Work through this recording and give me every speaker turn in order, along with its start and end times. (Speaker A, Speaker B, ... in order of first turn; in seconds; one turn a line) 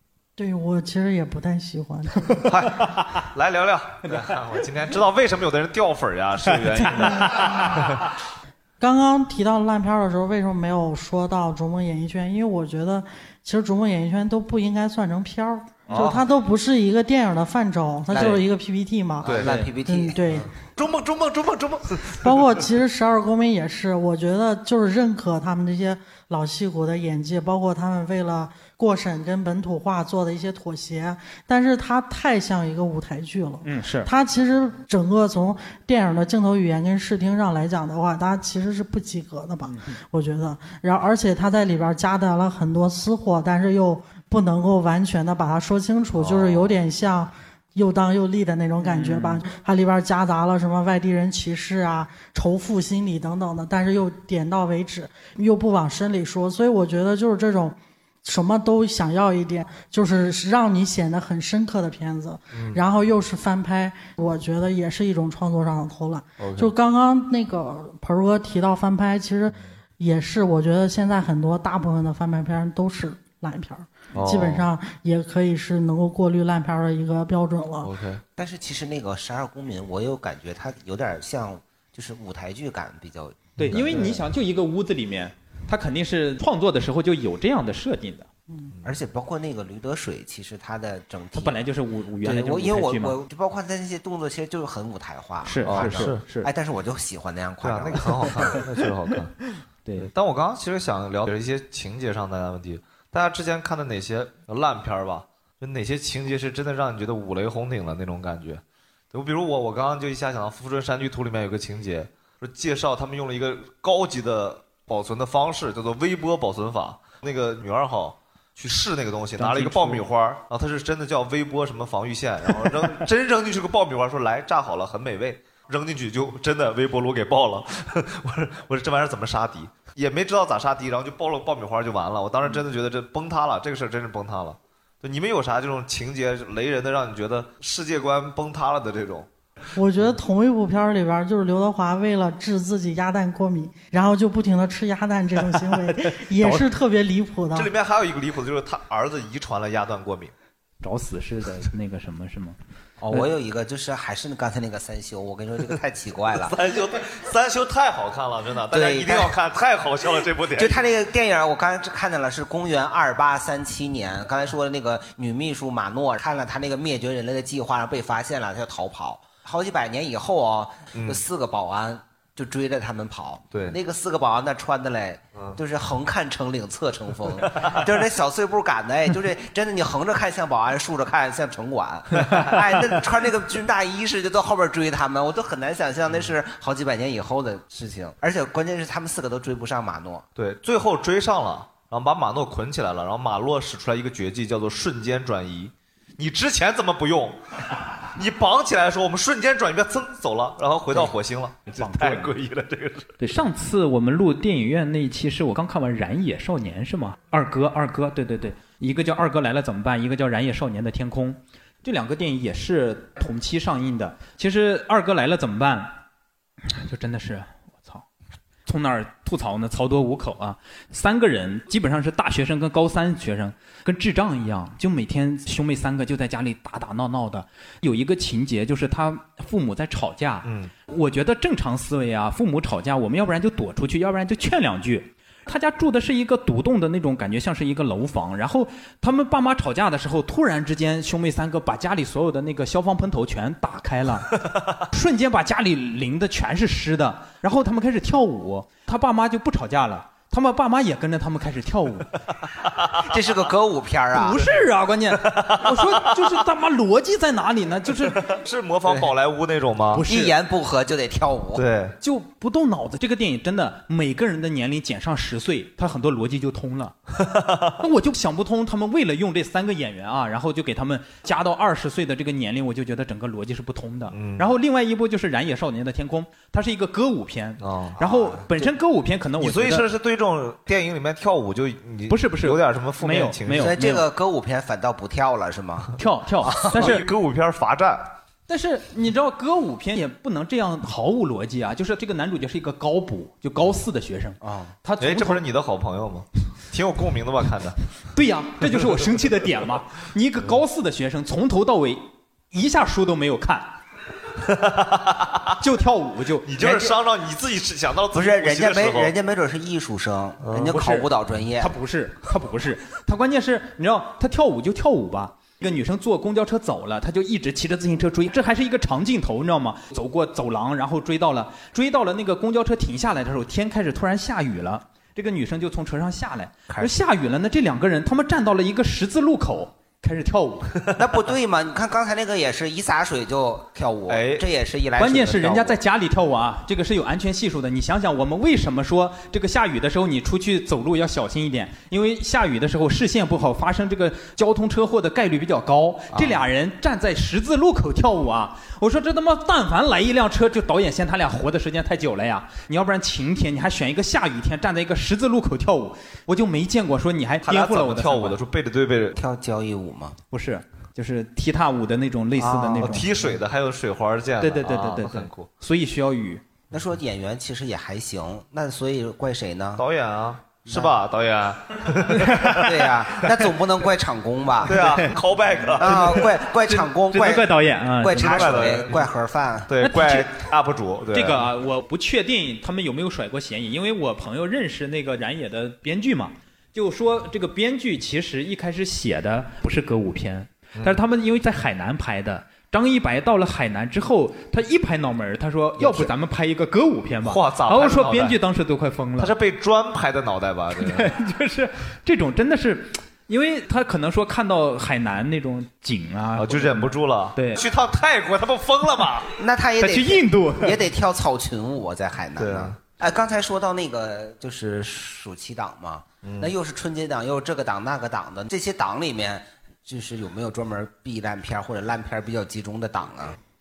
Speaker A: 0.4-2.5
Speaker B: 2.5-8.1
Speaker C: 2.8-3.2
Speaker C: 6.5-7.8
Speaker A: 8.8-20.5
Speaker B: 15.9-16.2
Speaker D: 15.9-16.2
Speaker D: 18.1-18.4
Speaker D: 19.2-20.5
Speaker B: 19.2-19.7
Speaker C: 19.4-19.7
Speaker B: 20.8-22.6
Speaker A: 22.2-77.9
Speaker C: 33.6-34.1
Speaker C: 39.7-40.0
Speaker B: 46.2-46.7
Speaker C: 48.8-49.4
Speaker B: 62.5-62.8
Speaker B: 66.4-66.7
Speaker B: 74.1-74.7
Speaker B: 77.8-78.2
Speaker D: 78.4-84.2
Speaker C: 83.6-88.3
Speaker B: 83.7-84.1
Speaker D: 88.8-91.6
Speaker C: 91.4-93.2
Speaker D: 92.2-98.6
Speaker C: 95.4-96.5
Speaker B: 95.7-96.2
Speaker B: 97.6-99.5
Speaker C: 99.8-100.1
Speaker B: 100.0-108.6
Speaker B: 109.1-139.3
Speaker C: 119.4-120.1
Speaker A: 139.8-147.7
Speaker C: 145.9-146.7
Speaker B: 147.5-150.3
Speaker C: 150.8-152.6
Speaker D: 153.0-156.6
Speaker B: 156.3-160.8
Speaker D: 158.7-159.3
Speaker D: 160.6-190.2
Speaker B: 170.9-171.2
Speaker B: 177.4-177.8
Speaker B: 190.4-203.1
Speaker C: 201.7-202.3
Speaker C: 203.2-215.9
Speaker C: 216.7-218.1
Speaker C: 218.7-252.1
Speaker B: 230.4-230.7
Speaker D: 253.1-254.5
Speaker C: 254.1-258.2
Speaker B: 255.2-256.0
Speaker B: 258.2-260.1
Speaker C: 259.9-260.4
Speaker D: 260.1-261.6
Speaker B: 261.6-262.0
Speaker C: 262.0-267.0
Speaker B: 267.2-267.7
Speaker C: 267.8-279.9
Speaker B: 274.1-274.5
Speaker B: 277.6-278.0
Speaker D: 278.0-278.7
Speaker B: 279.4-283.7
Speaker C: 282.1-284.1
Speaker D: 283.6-287.0
Speaker C: 286.0-287.1
Speaker B: 286.6-288.1
Speaker C: 288.5-295.4
Speaker D: 294.4-294.7
Speaker B: 295.0-297.8
Speaker C: 298.1-303.8
Speaker B: 304.4-305.6
Speaker C: 305.6-306.5
Speaker B: 306.4-309.1
Speaker D: 306.6-306.9
Speaker D: 308.1-311.7
Speaker B: 310.4-310.8
Speaker C: 310.7-330.8
Speaker D: 326.7-327.0
Speaker D: 330.9-335.8
Speaker B: 334.1-334.5
Speaker C: 335.0-358.4
Speaker D: 346.1-346.4
Speaker B: 357.4-359.2
Speaker D: 359.1-360.2
Speaker C: 360.3-363.1
Speaker D: 362.4-363.4
Speaker B: 362.8-365.5
Speaker C: 364.4-366.4
Speaker D: 366.7-369.8
Speaker B: 369.8-373.5
Speaker D: 372.5-375.1
Speaker B: 374.6-376.3
Speaker C: 374.8-375.1
Speaker D: 375.8-379.7
Speaker C: 375.8-378.8
Speaker B: 378.1-379.1
Speaker B: 379.7-381.5
Speaker C: 379.8-380.3
Speaker C: 381.1-399.3
Speaker B: 390.8-391.0
Speaker D: 395.8-396.1
Speaker B: 397.2-398.4
Speaker B: 399.2-401.1
Speaker C: 400.8-407.6
Speaker B: 406.4-409.3
Speaker D: 409.4-423.4
Speaker C: 409.8-410.8
Speaker B: 412.4-412.8
Speaker B: 416.2-416.5